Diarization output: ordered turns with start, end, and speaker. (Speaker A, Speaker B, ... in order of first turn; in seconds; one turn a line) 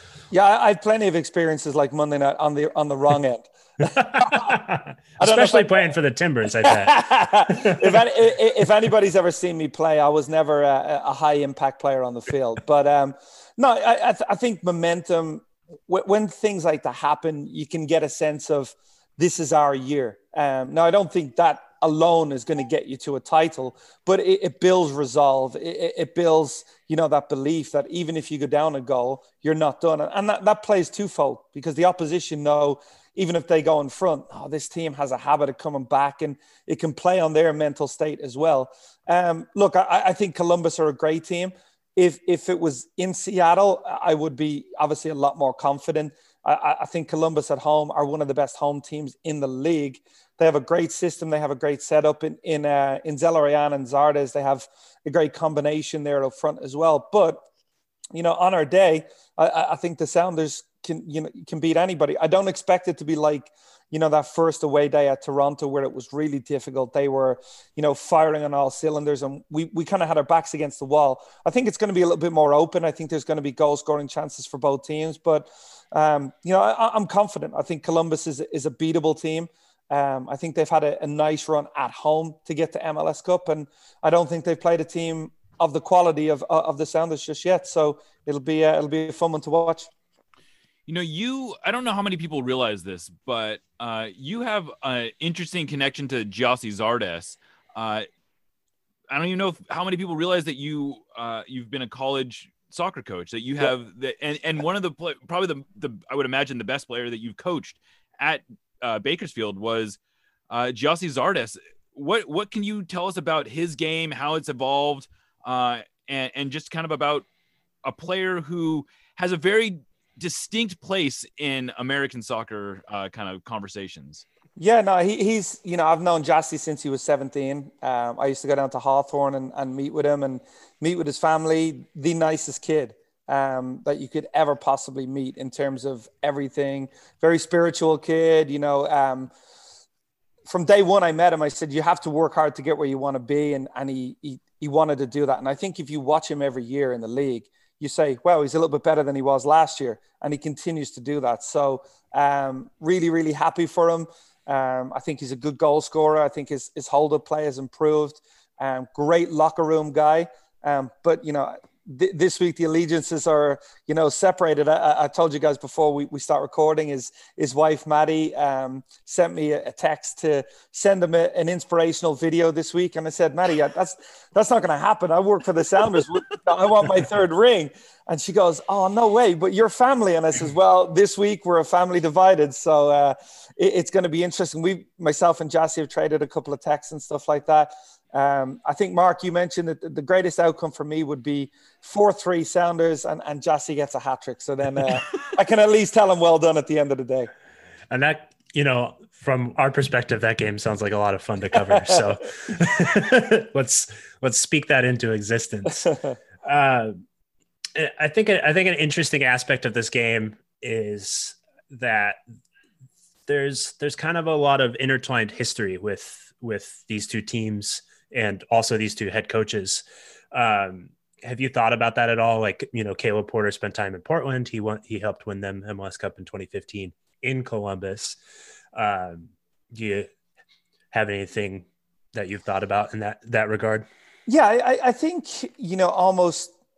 Speaker A: 0.3-4.6
Speaker B: 3.8-8.1
Speaker A: 5.2-5.9
Speaker A: 6.5-57.4
Speaker A: 58.1-89.9
Speaker C: 90.9-98.1
Speaker C: 99.1-110.0
Speaker C: 110.5-117.3
Speaker C: 117.8-124.2
Speaker A: 124.6-139.3
Speaker A: 140.5-197.3
Speaker B: 197.9-205.9
Speaker A: 201.8-202.1
Speaker B: 206.4-207.0
Speaker B: 207.8-212.2
Speaker B: 213.3-228.2
Speaker B: 228.8-230.1
Speaker B: 230.9-233.9
Speaker A: 234.3-236.5